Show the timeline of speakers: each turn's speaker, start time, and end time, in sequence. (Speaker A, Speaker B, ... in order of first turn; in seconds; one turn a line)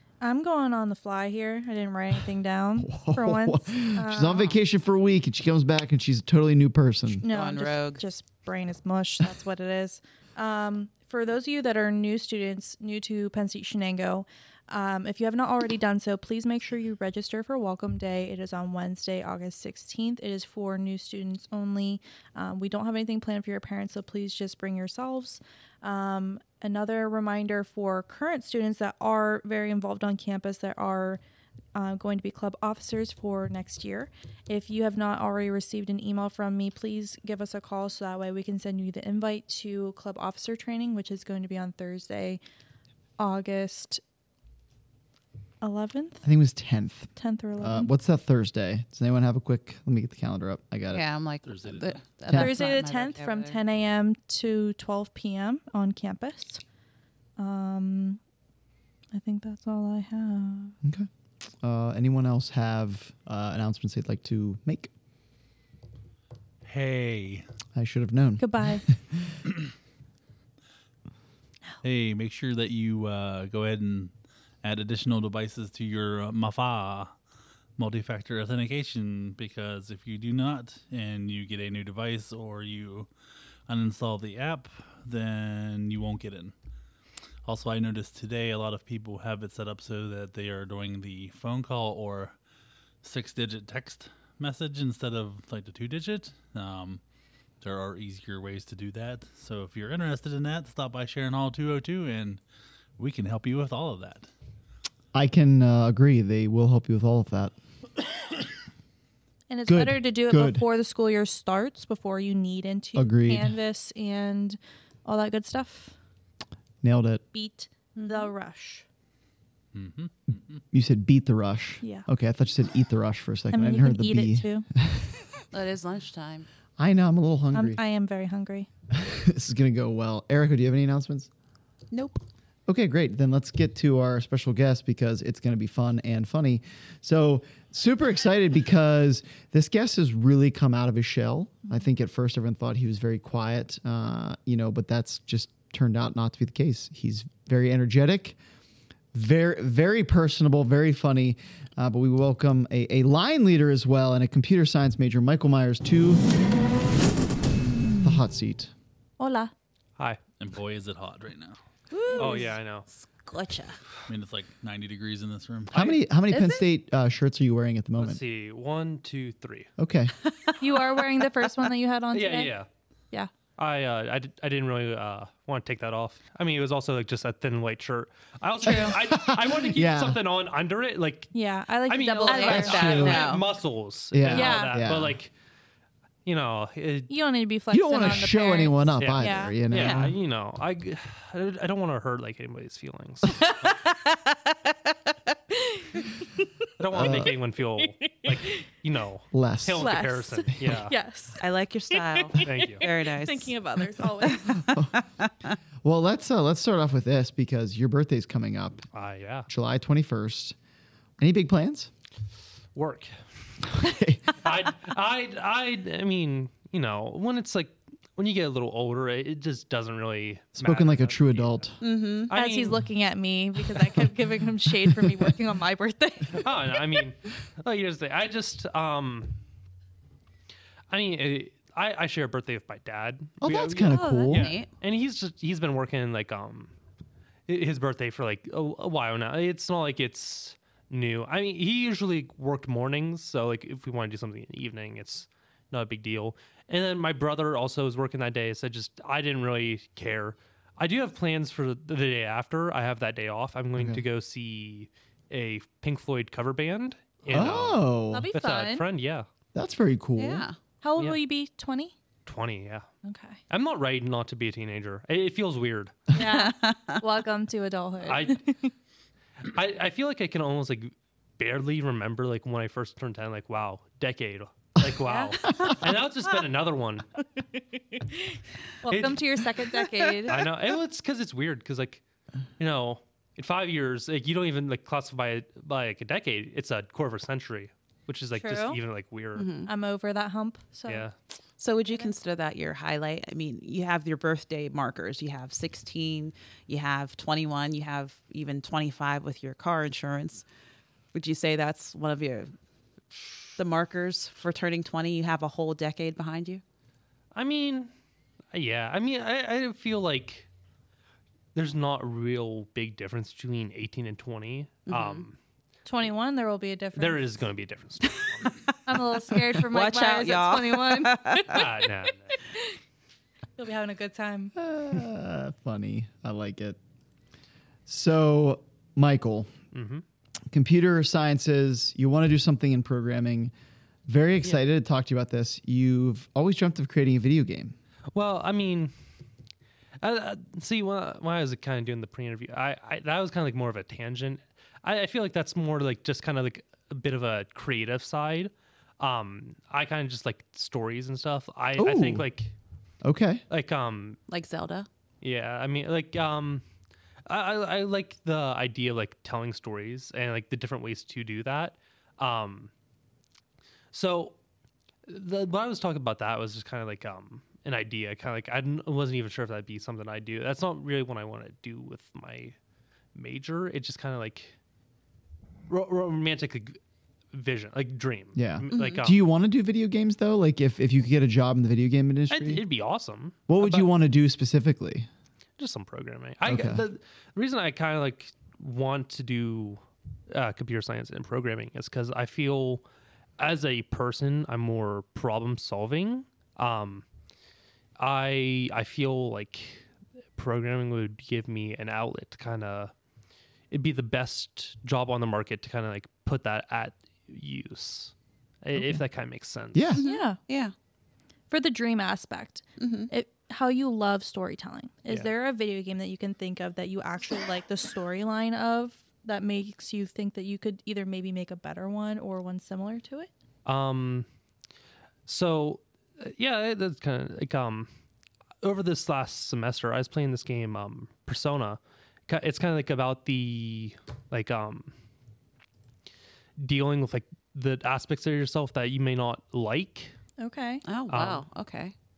Speaker A: 0.2-4.5
Speaker B: 2.8-7.2
Speaker C: 7.2-8.0
Speaker A: 7.2-31.2
Speaker A: 31.8-42.4
Speaker A: 43.2-44.0
Speaker A: 45.6-46.2
Speaker B: 46.2-51.0
Speaker A: 47.2-47.9
Speaker C: 50.9-53.6
Speaker D: 51.5-52.0
Speaker B: 52.3-52.5
Speaker A: 52.3-56.6
Speaker A: 57.4-58.2
Speaker A: 59.1-60.8
Speaker B: 60.8-61.1
Speaker B: 61.6-64.9
Speaker D: 66.6-67.5
Speaker B: 67.8-69.4
Speaker A: 68.4-68.9
Speaker D: 71.8-74.1
Speaker D: 74.6-77.2
Speaker D: 77.8-83.1
Speaker D: 83.7-86.5
Speaker D: 87.5-92.4
Speaker D: 93.0-97.0
Speaker D: 97.6-102.4
Speaker D: 103.0-104.3
Speaker B: 105.1-107.5
Speaker A: 109.5-115.9
Speaker B: 109.7-110.7
Speaker B: 113.0-113.5
Speaker B: 116.8-117.2
Speaker A: 117.3-118.8
Speaker C: 118.0-118.3
Speaker D: 119.7-120.6
Speaker B: 120.7-125.4
Speaker A: 123.5-124.7
Speaker C: 125.5-126.5
Speaker B: 126.8-127.8
Speaker A: 127.5-128.7
Speaker B: 128.9-131.3
Speaker B: 132.7-148.4
Speaker B: 149.1-156.2
Speaker B: 158.0-158.7
Speaker A: 159.2-159.5
Speaker D: 160.4-161.6
Speaker C: 161.9-163.8
Speaker E: 162.2-162.9
Speaker D: 164.1-165.9
Speaker B: 165.7-168.2
Speaker C: 166.3-166.7
Speaker E: 168.0-169.7
Speaker B: 169.8-170.1
Speaker C: 170.2-171.0
Speaker A: 170.6-172.5
Speaker E: 172.1-172.7
Speaker E: 173.6-181.3
Speaker B: 178.6-180.2
Speaker A: 181.3-183.3
Speaker E: 181.9-185.3
Speaker C: 182.2-183.5
Speaker B: 182.7-183.2
Speaker B: 184.1-185.2
Speaker A: 184.3-184.8
Speaker E: 186.2-187.1
Speaker A: 187.1-189.6
Speaker B: 187.7-190.2
Speaker E: 189.0-193.5
Speaker C: 189.7-190.1
Speaker A: 193.3-193.8
Speaker A: 195.6-196.1
Speaker E: 196.8-201.0
Speaker B: 196.9-197.3
Speaker A: 197.8-198.7
Speaker B: 199.3-200.0
Speaker A: 199.8-201.4
Speaker C: 201.4-203.5
Speaker A: 201.9-204.7
Speaker E: 202.4-202.9
Speaker C: 204.4-205.5
Speaker B: 204.6-204.9
Speaker B: 205.8-208.8
Speaker E: 208.9-209.5
Speaker B: 209.5-210.6
Speaker B: 211.2-211.9
Speaker E: 212.8-213.1
Speaker B: 213.6-214.3
Speaker E: 214.4-221.7
Speaker B: 220.6-221.8
Speaker C: 221.8-222.3
Speaker E: 222.3-222.8
Speaker A: 222.3-227.0
Speaker E: 226.3-229.4
Speaker E: 230.9-236.7
Speaker B: 233.4-234.5
Speaker A: 233.8-234.3
Speaker C: 234.3-234.7
Speaker E: 237.5-259.3
Speaker B: 253.8-254.0
Speaker B: 257.3-258.3
Speaker A: 258.1-258.9
Speaker B: 259.5-260.5
Speaker C: 260.2-260.6
Speaker A: 260.8-261.9
Speaker E: 262.3-262.9
Speaker A: 263.0-263.4
Speaker E: 263.5-265.9
Speaker A: 266.1-268.7
Speaker C: 266.2-267.0
Speaker E: 268.0-268.4
Speaker E: 269.4-277.1
Speaker A: 275.1-275.4
Speaker A: 278.0-280.5
Speaker E: 278.9-279.2
Speaker E: 280.2-282.0
Speaker E: 282.6-289.5
Speaker A: 288.4-288.8
Speaker C: 289.4-289.7
Speaker A: 289.7-291.1
Speaker E: 290.9-291.1
Speaker C: 291.6-300.4
Speaker C: 301.1-302.5
Speaker C: 303.6-306.6
Speaker E: 307.4-307.9
Speaker E: 308.5-310.5
Speaker E: 311.5-315.4
Speaker C: 314.9-315.2
Speaker A: 315.9-317.4
Speaker E: 317.0-318.5
Speaker C: 318.4-318.8
Speaker A: 318.9-321.9
Speaker C: 319.5-321.7
Speaker E: 321.5-322.3
Speaker A: 323.6-324.5
Speaker B: 324.6-326.8
Speaker B: 327.9-329.5
Speaker E: 329.7-330.0
Speaker B: 330.5-333.5
Speaker B: 334.1-337.8
Speaker E: 338.1-338.9
Speaker E: 340.0-352.5
Speaker B: 351.8-352.3
Speaker B: 353.0-353.4
Speaker E: 353.5-354.2
Speaker C: 354.3-354.9
Speaker E: 355.2-356.6
Speaker E: 357.3-362.7
Speaker E: 363.9-364.4
Speaker E: 365.1-372.6
Speaker E: 373.1-374.6
Speaker E: 375.7-376.8
Speaker E: 377.3-379.2
Speaker B: 378.4-382.6
Speaker C: 378.7-379.0
Speaker E: 382.3-383.9
Speaker B: 383.5-385.1
Speaker E: 385.6-392.9
Speaker B: 386.5-386.8
Speaker E: 393.4-397.1
Speaker E: 398.0-402.9
Speaker E: 403.7-410.0
Speaker B: 408.8-409.0
Speaker B: 409.7-410.0
Speaker C: 409.9-410.7
Speaker A: 410.0-410.4
Speaker A: 411.5-423.3
Speaker C: 412.8-413.1
Speaker E: 423.6-424.3
Speaker E: 425.3-427.9
Speaker E: 428.6-434.9
Speaker E: 436.6-440.1
Speaker A: 440.4-440.8
Speaker C: 440.9-441.9
Speaker E: 441.1-441.5